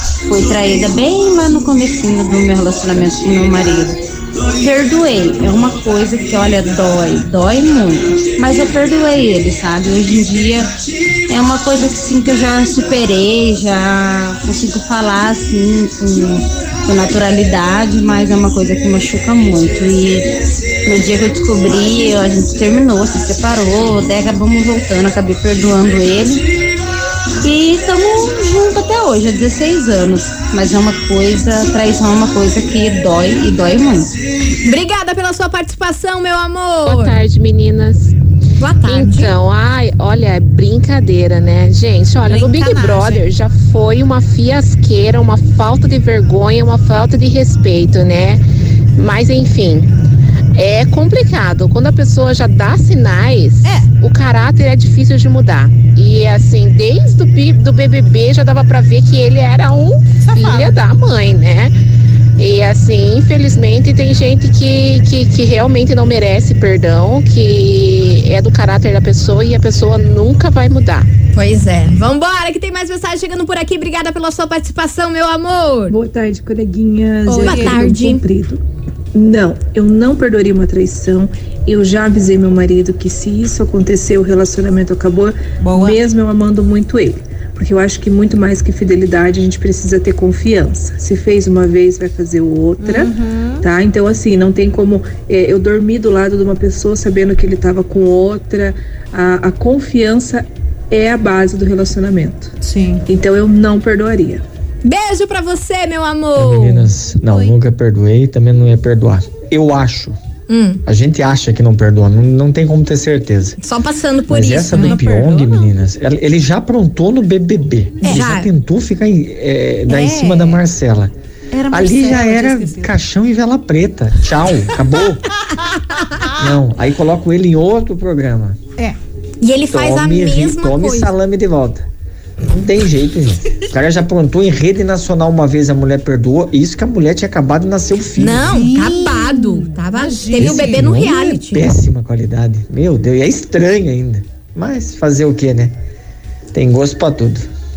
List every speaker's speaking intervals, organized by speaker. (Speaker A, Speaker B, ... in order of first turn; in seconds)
Speaker A: 0.2-4.0, 4.6-10.7, 11.3-26.4, 27.4-34.1
Speaker B: 34.6-37.2, 38.6-39.3, 71.3-76.0, 77.3-78.2, 104.8-106.9, 110.5-110.8, 113.6-115.0, 118.0-118.5, 129.4-131.1, 138.2-141.7
Speaker C: 36.8-38.1, 38.8-48.4, 49.0-49.9, 50.5-61.7, 62.4-71.1
Speaker D: 42.2-43.2, 60.2-60.8, 77.3-77.8, 85.6-86.0, 92.8-93.7, 102.6-103.0, 107.2-107.5, 114.7-115.7, 119.9-120.6, 121.5-122.9, 125.4-126.6, 138.4-141.2
Speaker E: 75.9-78.6, 79.1-102.5, 103.0-104.4
Speaker F: 106.3-110.2, 110.8-113.6, 114.3-121.1, 121.7-125.2, 126.4-128.6, 129.7-131.8, 132.5-138.6, 140.4-145.8, 146.5-147.5